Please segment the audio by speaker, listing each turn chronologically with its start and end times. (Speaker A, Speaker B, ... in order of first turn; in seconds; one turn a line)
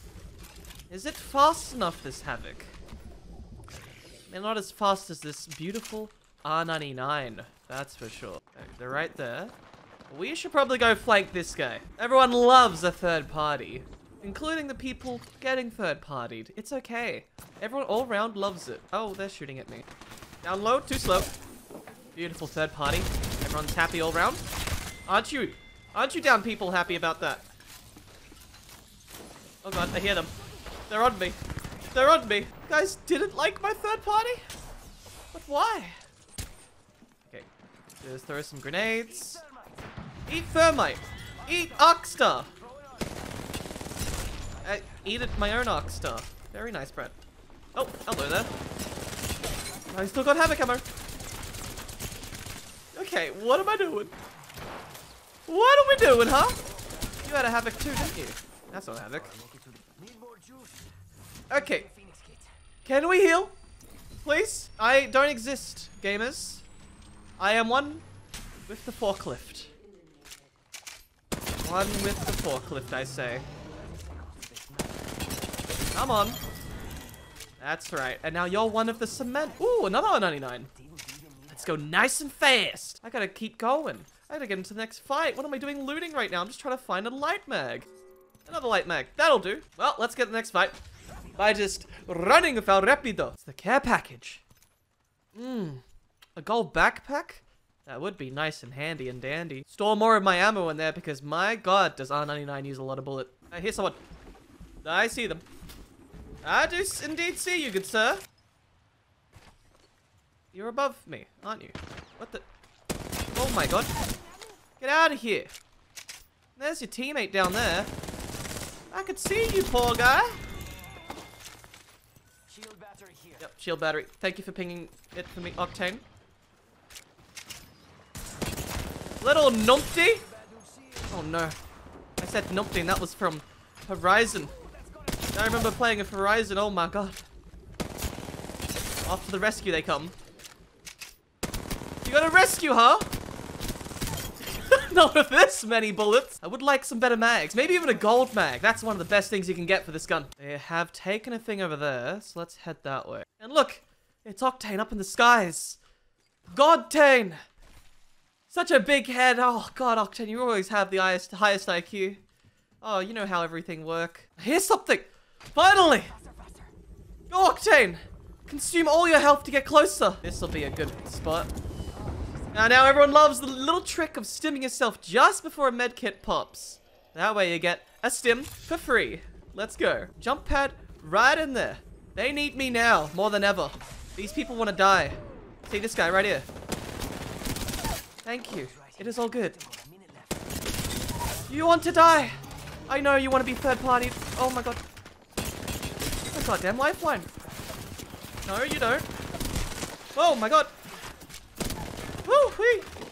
Speaker A: 0.9-2.8
Speaker A: 4.3-9.5
Speaker A: 10.1-19.9
Speaker A: 20.4-21.3
Speaker A: 22.1-24.4
Speaker A: 25.1-27.5
Speaker A: 29.6-30.3
Speaker A: 30.9-31.4
Speaker A: 31.9-34.4
Speaker A: 35.3-36.0
Speaker A: 38.0-39.4
Speaker B: 38.9-39.9
Speaker A: 40.3-42.5
Speaker B: 41.4-43.6
Speaker B: 44.5-45.2
Speaker A: 44.6-47.1
Speaker A: 47.8-48.5
Speaker B: 49.5-50.1
Speaker A: 49.9-50.8
Speaker A: 52.9-54.1
Speaker A: 55.5-56.6
Speaker B: 56.6-57.8
Speaker A: 57.2-59.3
Speaker B: 59.1-60.9
Speaker A: 61.5-61.8
Speaker B: 61.5-62.5
Speaker A: 62.8-63.5
Speaker A: 64.2-66.6
Speaker A: 67.4-68.0
Speaker A: 68.7-69.7
Speaker A: 71.6-73.5
Speaker B: 73.6-75.7
Speaker A: 75.9-76.4
Speaker A: 77.6-80.7
Speaker B: 78.7-79.9
Speaker B: 80.7-81.9
Speaker A: 81.5-87.9
Speaker A: 88.5-90.8
Speaker B: 91.1-91.5
Speaker A: 91.4-94.4
Speaker A: 95.3-95.8
Speaker A: 96.3-104.0
Speaker A: 104.8-105.4
Speaker A: 106.4-108.2
Speaker A: 110.5-112.5
Speaker A: 113.3-113.9
Speaker B: 113.9-114.6
Speaker A: 114.8-115.5
Speaker A: 116.6-117.9
Speaker A: 118.9-120.4
Speaker B: 120.7-121.2
Speaker B: 122.5-123.5
Speaker A: 123.4-126.0
Speaker A: 129.2-130.2
Speaker B: 130.0-131.3
Speaker A: 131.1-131.6
Speaker A: 132.2-134.5
Speaker B: 134.2-135.8
Speaker A: 135.3-137.2
Speaker A: 139.1-140.1
Speaker A: 142.0-143.1
Speaker A: 144.4-155.8
Speaker A: 156.5-157.4
Speaker A: 158.5-162.2
Speaker A: 162.8-166.1
Speaker B: 165.9-166.7
Speaker A: 167.3-171.5
Speaker B: 171.9-172.7
Speaker A: 172.5-186.5
Speaker A: 188.2-189.5
Speaker B: 188.6-190.7
Speaker A: 191.5-194.8
Speaker A: 196.3-197.3
Speaker B: 197.3-198.3
Speaker A: 198.4-199.1
Speaker A: 200.2-200.7
Speaker A: 202.2-202.9